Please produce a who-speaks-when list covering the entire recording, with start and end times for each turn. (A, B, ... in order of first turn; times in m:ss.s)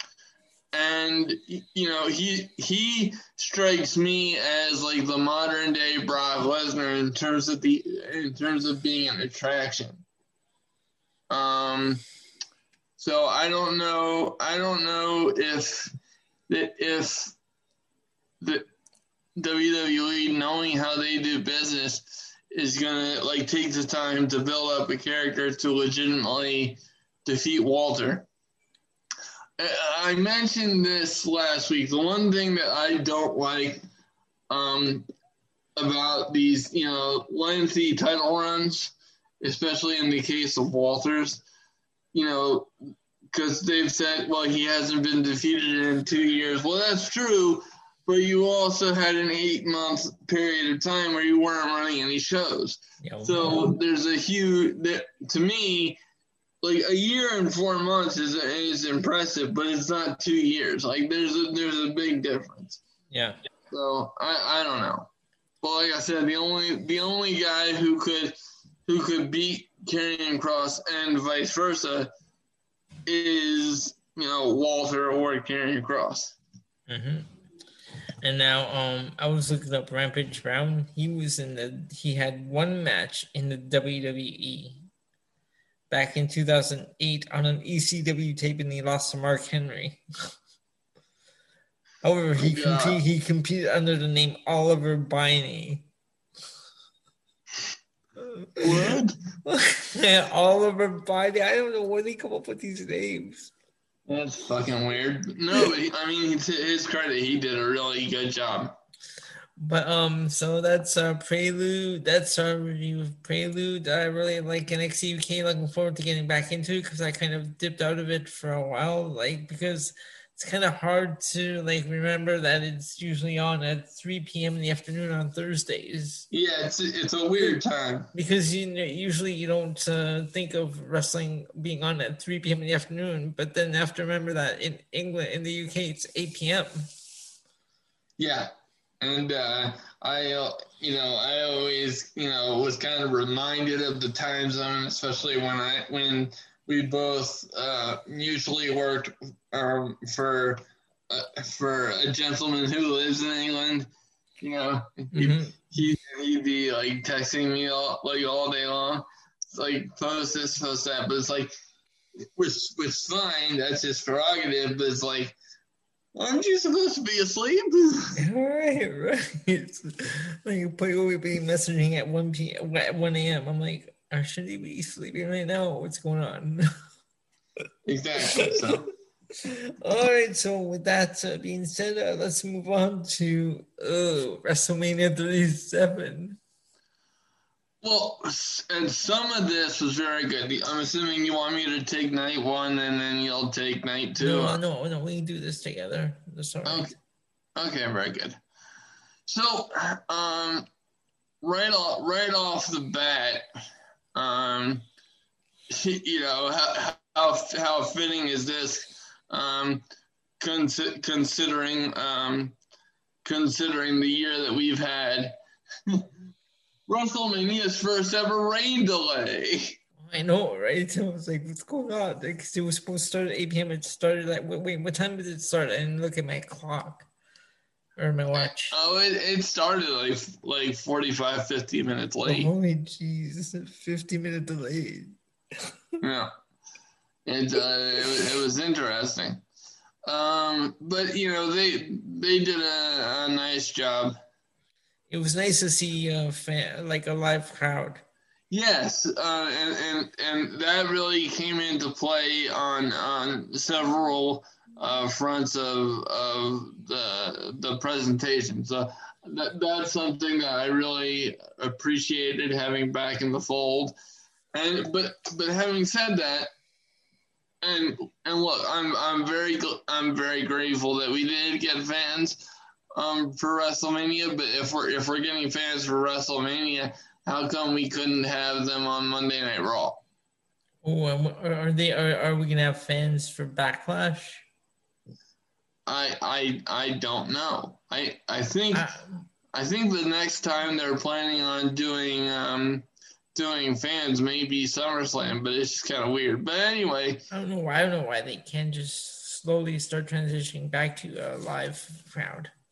0:00.7-0:10.0 A
0:11.3-0:12.0 A
0:13.0-0:15.9 A
0:16.5-0:17.4 A
0:18.4-0:18.7 A
0:19.4-0:28.3 A
0:29.6-0:33.8 A
0:34.5-0:35.1 A
0:35.8-0:41.4 A
0:42.1-0:42.7 A
0:43.3-0:56.0 A
0:53.0-0:53.7 B
0:56.6-1:02.8 A
1:03.1-1:03.4 B
1:03.7-1:05.1 A
1:05.6-1:08.4 A
1:08.9-1:12.1 A
1:13.1-1:16.4 A
1:16.9-1:17.3 B
1:18.2-1:24.8 B
1:25.9-1:30.0 B
1:32.0-1:35.9 B
1:32.4-1:33.0 A
1:38.2-1:43.5 B
1:38.6-1:39.2 A
1:44.1-1:48.8 A
1:49.6-2:06.3 B
2:06.3-2:08.1 A
2:08.1-2:16.7 B
2:18.2-2:33.9 A
2:34.4-2:41.5 A
2:35.1-2:35.6 B
2:42.4-2:45.4 A
2:46.2-2:48.2 A
2:48.2-2:56.7 B
2:57.9-2:58.9 A
2:59.4-3:06.4 B
3:07.8-3:14.6 A
3:14.2-3:16.9 B
3:16.6-3:17.0 A
3:17.6-3:18.4 A
3:19.3-3:20.7 A
3:21.4-3:23.5 A
3:24.1-3:24.9 A
3:25.7-3:29.8 A
3:30.4-3:32.6 A
3:33.2-3:35.4 A
3:36.9-3:39.8 A
3:40.0-3:47.1 B
3:48.0-3:48.7 B
3:48.4-3:52.5 A
3:52.3-3:55.2 B
3:56.0-3:56.3 A
3:57.3-3:59.4 A
4:00.1-4:04.2 A
4:05.1-4:08.0 B
4:08.5-4:24.0 A
4:24.5-4:26.5 A
4:27.6-4:32.4 A
4:33.0-4:40.0 A
4:40.8-4:44.4 B
4:45.9-4:48.9 A
4:48.7-4:49.3 B
4:49.5-4:57.2 A
4:57.3-5:02.5 B